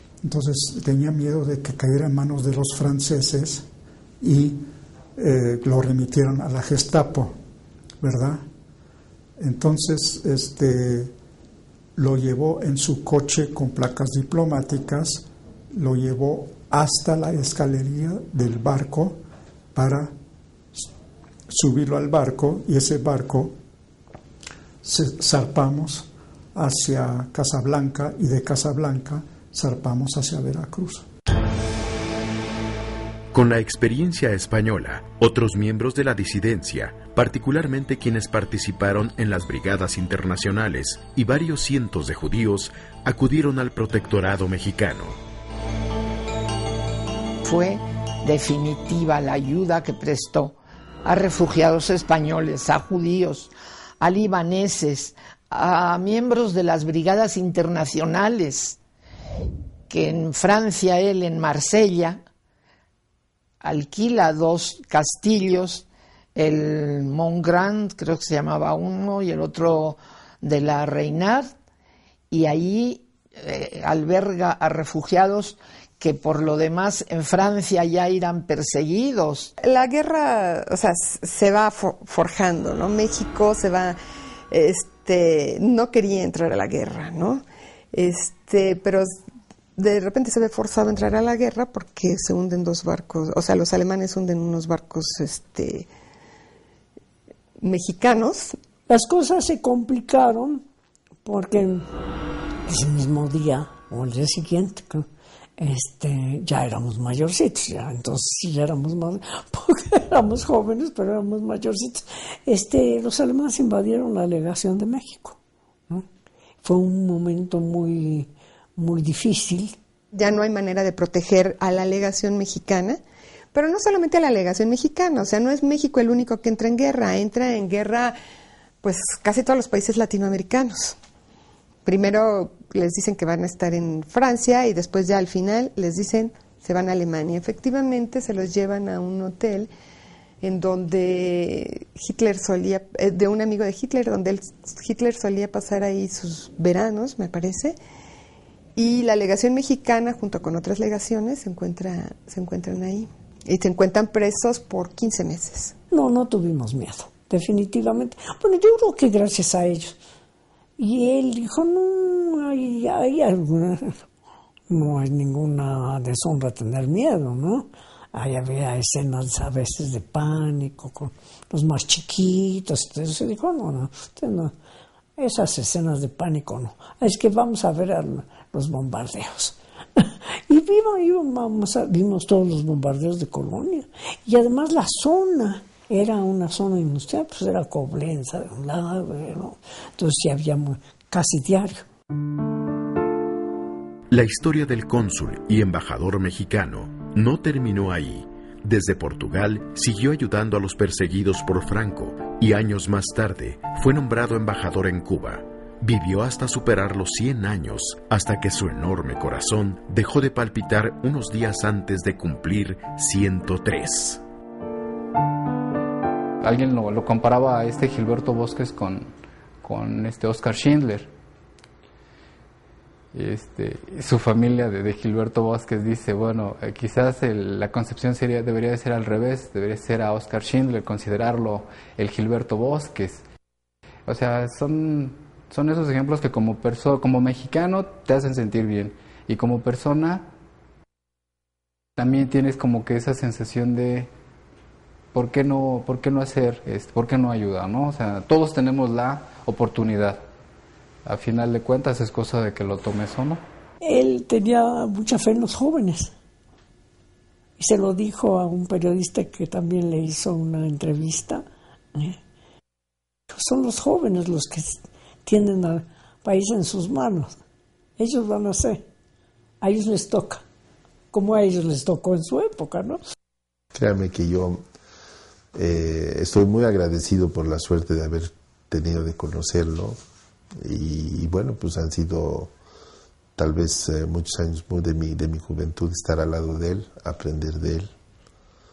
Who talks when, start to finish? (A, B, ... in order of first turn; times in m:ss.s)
0:00.2-0:03.7 A
0:04.2-0:04.6 A
0:05.2-0:07.3 A
0:08.0-0:08.4 A
0:09.4-0:11.1 A
0:12.0-0:19.2 A
0:19.7-0:20.1 A
0:21.5-0:23.6 A
0:24.8-0:31.0 A
0:33.3-0:45.2 B
0:47.4-0:58.8 C
0:59.9-1:02.2 C
1:03.6-1:11.5 C
1:12.3-1:19.5 C
1:19.6-1:24.0 D
1:24.5-1:29.1 D
1:29.8-1:35.9 D
1:37.6-1:38.6 D
1:38.9-1:40.6 E
1:41.2-1:41.9 E
1:42.7-1:45.1 E
1:45.6-1:55.4 E
1:56.6-1:59.8 E
2:00.1-2:03.0 D
2:03.5-2:08.2 D
2:08.8-2:11.0 D
2:11.8-2:19.7 D
2:20.4-2:27.8 D
2:28.8-2:35.7 D
2:35.9-2:40.0 E
2:40.8-2:44.0 E
2:44.7-2:54.5 E
2:55.2-3:11.8 E
3:14.1-3:34.2 B
3:36.4-3:39.1 F
3:39.6-3:41.1 F
3:43.1-3:53.2 F
3:54.0-4:00.3 F
4:02.0-4:04.1 F
4:05.1-4:10.2 F
4:11.0-4:13.4 F
4:13.8-4:16.1 E
4:17.6-4:22.2 E
4:23.3-4:27.4 E
4:28.0-4:28.8 E
4:29.6-4:30.4 E
4:31.1-4:33.0 E
4:33.7-4:34.6 G
4:35.5-4:40.0 G
4:40.6-4:42.5 G
4:43.4-4:47.9 G